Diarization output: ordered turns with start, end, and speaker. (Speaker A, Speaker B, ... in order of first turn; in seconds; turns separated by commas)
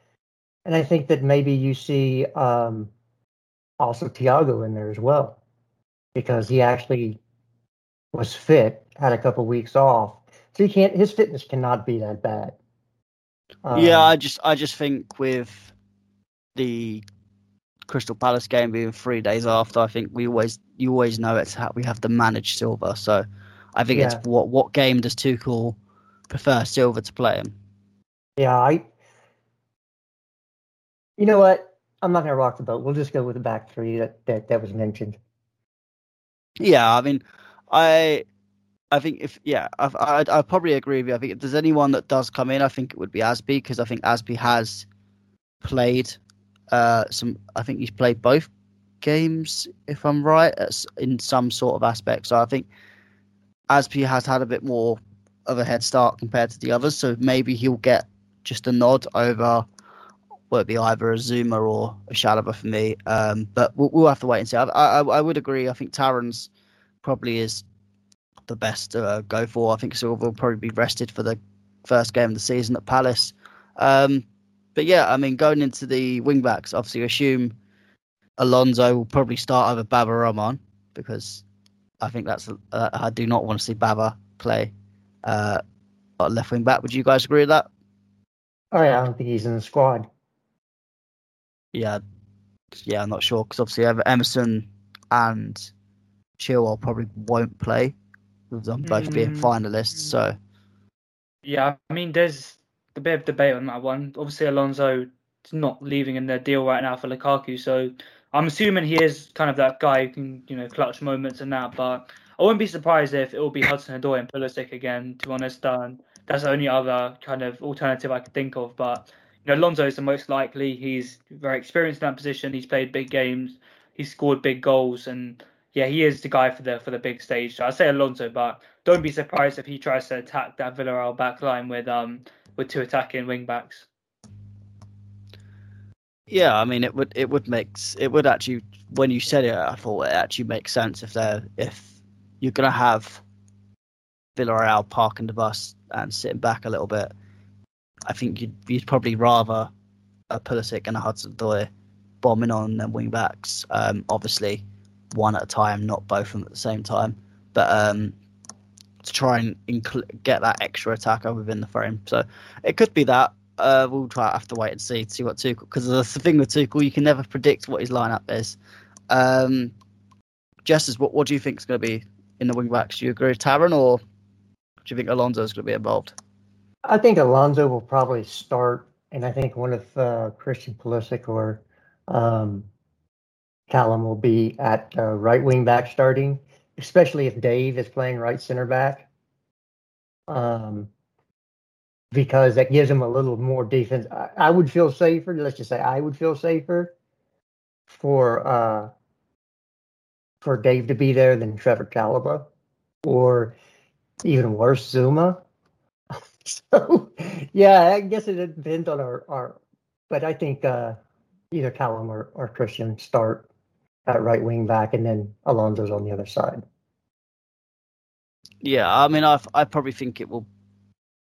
Speaker A: 0.7-2.9, Speaker A: 3.8-5.4, Speaker A: 6.1-7.2, Speaker A: 8.1-12.6, Speaker A: 13.6-14.1, Speaker B: 13.7-15.7, Speaker B: 16.5-17.0, Speaker B: 17.9-25.8, Speaker A: 23.9-24.2, Speaker B: 26.3-27.5, Speaker A: 28.4-28.8, Speaker A: 31.2-35.2, Speaker B: 36.6-38.2, Speaker B: 38.9-44.9, Speaker B: 45.6-46.2, Speaker B: 46.7-48.5, Speaker B: 49.0-52.6, Speaker B: 53.7-59.6, Speaker B: 60.5-66.5, Speaker B: 67.0-67.6, Speaker B: 68.5-77.5, Speaker B: 78.4-81.4, Speaker B: 82.0-84.7, Speaker B: 85.2-85.6, Speaker B: 86.2-87.7, Speaker A: 88.7-90.1, Speaker B: 91.7-92.0, Speaker B: 92.8-95.7, Speaker B: 96.4-97.9, Speaker B: 98.5-100.3, Speaker C: 98.8-99.5, Speaker C: 101.4-133.9, Speaker B: 136.3-143.2, Speaker B: 144.3-147.1, Speaker B: 148.1-149.7, Speaker B: 150.3-151.7, Speaker B: 152.2-158.1, Speaker B: 159.0-168.6, Speaker B: 169.1-169.7, Speaker B: 170.6-174.0, Speaker B: 174.8-176.1, Speaker A: 176.8-182.7, Speaker A: 183.7-189.1, Speaker A: 190.3-190.9, Speaker A: 192.1-196.9, Speaker A: 197.9-198.9, Speaker A: 200.4-202.5, Speaker A: 203.0-203.5, Speaker A: 204.2-205.4, Speaker A: 206.4-209.6, Speaker A: 210.1-211.0, Speaker A: 211.5-213.4, Speaker A: 214.1-216.6, Speaker B: 218.6-220.5